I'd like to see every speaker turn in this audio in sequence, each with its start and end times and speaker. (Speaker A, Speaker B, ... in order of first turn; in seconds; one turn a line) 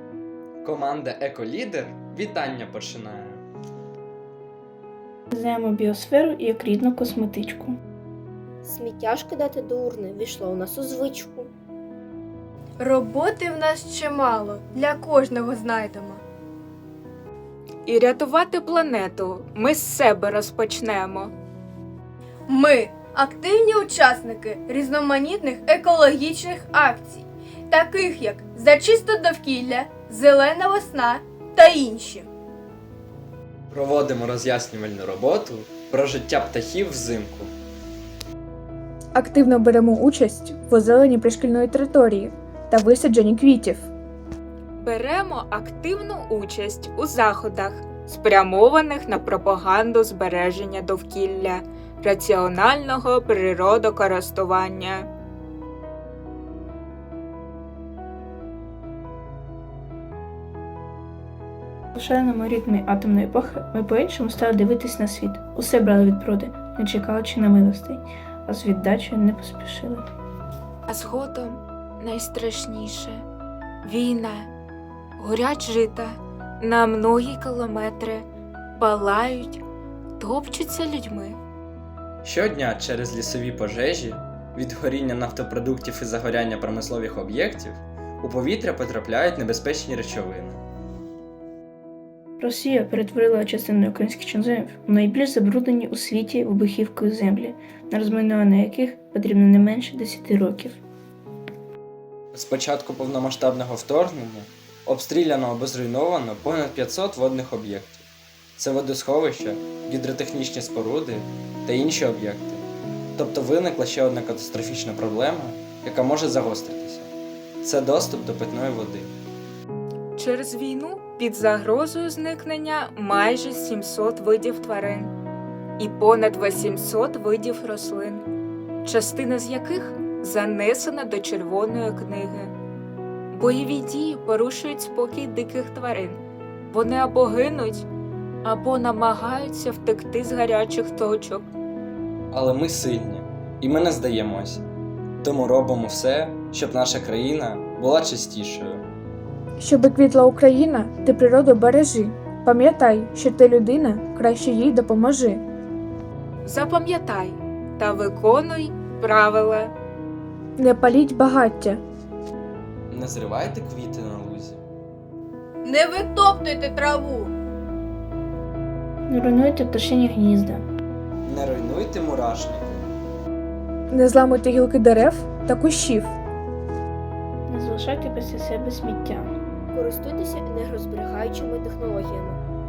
Speaker A: 0.6-3.4
Speaker B: 5.3-7.8
Speaker C: 8.6-11.5
Speaker D: 12.8-16.2
Speaker E: 17.9-21.3
Speaker D: 22.5-32.3
Speaker A: 33.7-37.5
Speaker F: 39.1-43.9
Speaker E: 44.8-55.1
Speaker B: 61.9-70.0
Speaker E: 70.9-73.2
Speaker E: 73.8-74.5
Speaker E: 75.2-78.2
Speaker E: 78.8-79.6
Speaker E: 80.2-81.4
Speaker A: 82.2-90.6
Speaker B: 92.4-100.8
Speaker A: 102.3-108.0
Speaker A: 108.6-112.6
Speaker A: 113.2-117.1
Speaker A: 117.6-119.1
Speaker E: 120.2-125.1
Speaker E: 125.8-128.2
Speaker E: 128.8-132.5
Speaker E: 133.3-137.9
Speaker E: 138.4-141.5
Speaker A: 142.3-144.6
Speaker A: 145.2-148.8
Speaker F: 149.6-155.4
Speaker E: 156.4-159.7
Speaker F: 160.6-161.8
Speaker A: 162.9-164.6
Speaker D: 165.6-167.3
Speaker B: 169.1-170.6
Speaker A: 171.2-172.9
Speaker F: 173.9-176.1
Speaker B: 177.5-179.3
Speaker C: 179.7-182.4